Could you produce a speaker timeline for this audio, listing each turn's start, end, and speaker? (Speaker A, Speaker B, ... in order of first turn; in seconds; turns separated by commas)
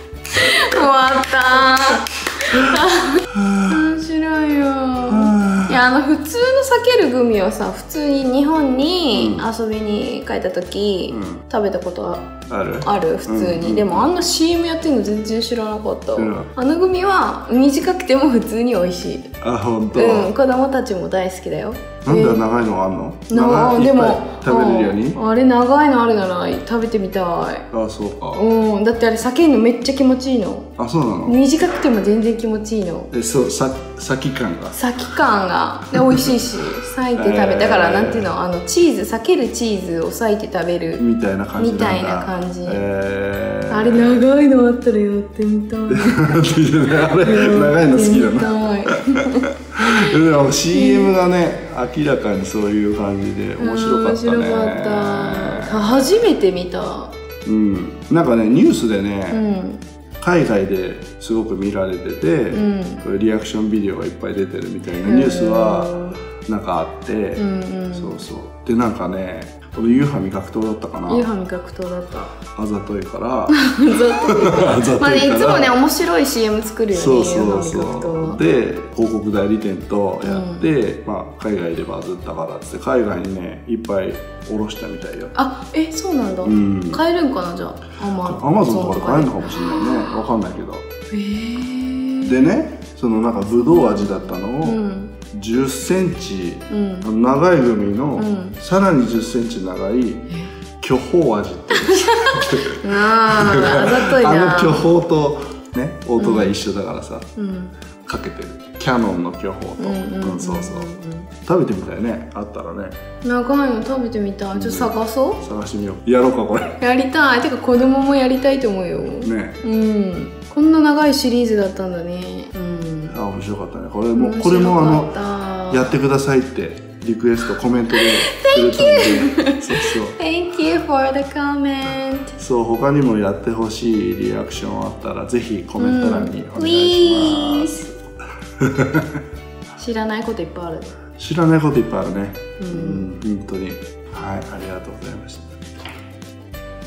Speaker A: 0.3-19.3, Speaker B: 3.4-3.6, Speaker B: 5.1-5.8, Speaker B: 9.1-9.5, Speaker B: 11.1-11.4, Speaker B: 12.5-14.1, Speaker B: 16.2-16.5, Speaker B: 19.4-20.3, Speaker A: 19.9-22.4, Speaker B: 22.1-25.2, Speaker A: 23.3-27.7, Speaker B: 27.7-28.4, Speaker A: 28.4-30.7, Speaker B: 30.8-31.4, Speaker A: 31.3-33.1, Speaker B: 33.1-34.8, Speaker A: 34.8-41.0, Speaker B: 36.0-36.3, Speaker B: 37.1-38.3, Speaker B: 41.0-44.2, Speaker A: 41.6-42.9, Speaker A: 43.7-46.4, Speaker B: 45.9-48.5, Speaker A: 47.2-50.0, Speaker B: 49.8-56.0, Speaker A: 50.7-51.1, Speaker A: 53.6-57.1, Speaker B: 57.5-59.4, Speaker A: 59.3-59.8, Speaker B: 60.2-71.3, Speaker A: 62.5-63.0, Speaker A: 65.0-66.2, Speaker A: 67.4-68.2, Speaker A: 71.1-72.4, Speaker B: 72.5-75.8, Speaker A: 73.5-78.4, Speaker B: 76.9-85.3, Speaker A: 80.2-80.7, Speaker A: 85.3-90.2, Speaker B: 86.4-87.0, Speaker B: 88.2-90.8, Speaker A: 91.1-92.4, Speaker B: 92.2-94.8, Speaker A: 93.7-95.2, Speaker B: 95.3-102.6, Speaker A: 96.7-97.1, Speaker A: 98.2-98.6, Speaker A: 101.9-104.9, Speaker B: 103.3-107.3, Speaker A: 106.2-106.5, Speaker A: 107.4-107.7, Speaker B: 108.0-110.9, Speaker A: 109.8-111.3, Speaker B: 111.5-113.0, Speaker A: 113.2-115.4, Speaker B: 114.5-116.8, Speaker A: 116.8-123.2, Speaker B: 119.2-119.6, Speaker B: 123.1-125.2, Speaker A: 124.2-126.0, Speaker B: 125.7-130.2, Speaker A: 128.0-132.3, Speaker B: 132.4-137.8, Speaker A: 135.8-137.9, Speaker B: 138.6-139.2, Speaker A: 139.8-141.0, Speaker B: 141.2-145.6, Speaker A: 142.6-143.1